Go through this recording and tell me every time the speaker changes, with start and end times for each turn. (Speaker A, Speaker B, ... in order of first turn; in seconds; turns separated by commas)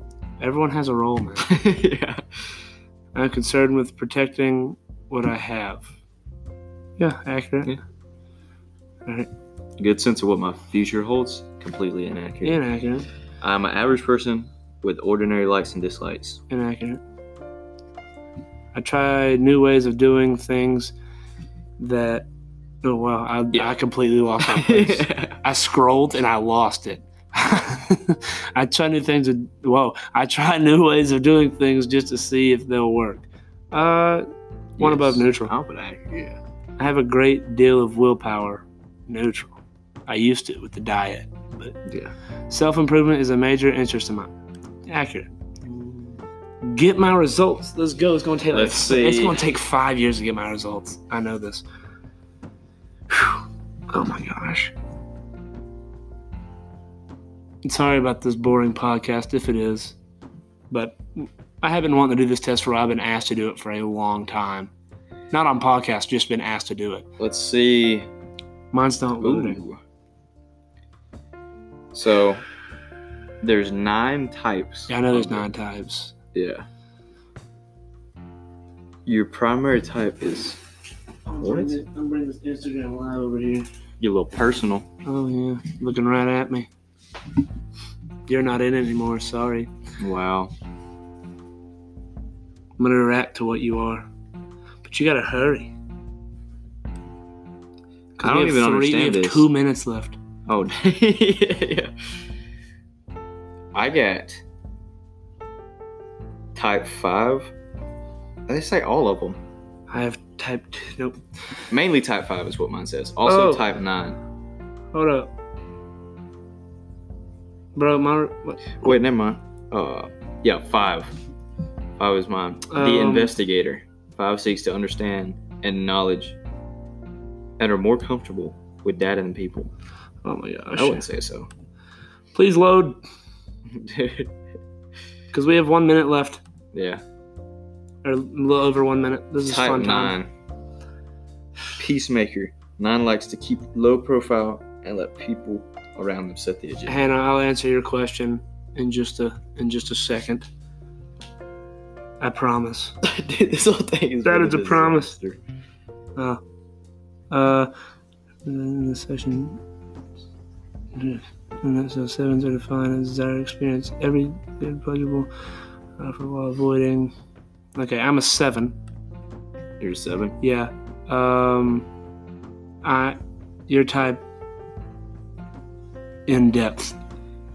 Speaker A: 0.4-1.5, Speaker B: 1.4-2.2, Speaker A: 3.1-5.9, Speaker A: 7.0-7.8, Speaker B: 9.8-12.6, Speaker A: 12.4-13.1, Speaker B: 13.4-16.4, Speaker A: 16.5-17.0, Speaker A: 18.7-20.9, Speaker A: 21.8-22.3, Speaker A: 22.8-34.2, Speaker B: 24.4-25.4, Speaker A: 34.8-35.5, Speaker B: 34.8-36.4, Speaker A: 36.8-41.8, Speaker B: 41.9-42.1, Speaker A: 42.5-44.3, Speaker A: 44.9-45.3, Speaker B: 45.6-46.1, Speaker A: 46.6-51.6, Speaker B: 48.5-49.4, Speaker A: 53.1-54.7, Speaker A: 57.6-60.0, Speaker A: 60.7-64.7, Speaker A: 65.3-67.1, Speaker B: 67.2-68.1, Speaker A: 68.7-69.6, Speaker B: 69.2-69.8, Speaker B: 71.9-72.4, Speaker B: 73.4-75.5, Speaker A: 74.9-76.1, Speaker B: 76.3-76.7, Speaker B: 79.1-80.6, Speaker A: 81.3-83.7, Speaker B: 81.4-81.8, Speaker B: 84.0-84.9, Speaker A: 85.0-86.7, Speaker A: 88.3-89.7, Speaker B: 90.0-90.5, Speaker A: 92.8-94.1, Speaker A: 94.8-95.7, Speaker A: 98.2-100.2, Speaker B: 98.2-99.5, Speaker B: 100.5-102.1, Speaker B: 103.7-104.4, Speaker B: 106.5-107.5, Speaker B: 108.5-109.4, Speaker A: 109.9-111.2, Speaker B: 111.7-114.2, Speaker A: 113.2-113.7, Speaker A: 114.9-115.3, Speaker A: 117.8-118.9, Speaker B: 118.8-121.2, Speaker B: 122.0-126.4, Speaker A: 122.7-123.3, Speaker B: 127.6-129.7, Speaker A: 130.2-131.1, Speaker B: 130.7-131.5, Speaker A: 132.3-133.0, Speaker B: 133.7-134.3, Speaker A: 135.3-136.4, Speaker B: 136.7-137.0, Speaker A: 138.0-140.1, Speaker B: 139.4-140.3, Speaker B: 141.8-147.1, Speaker A: 146.9-150.5, Speaker A: 152.2-152.9, Speaker B: 153.0-155.4, Speaker A: 154.2-155.1, Speaker A: 157.3-157.7, Speaker A: 158.4-159.6, Speaker A: 160.9-165.3, Speaker A: 166.0-167.1, Speaker A: 167.8-168.8, Speaker B: 169.8-170.4, Speaker A: 170.4-171.9, Speaker A: 172.8-173.2, Speaker A: 173.7-174.2, Speaker A: 176.3-176.9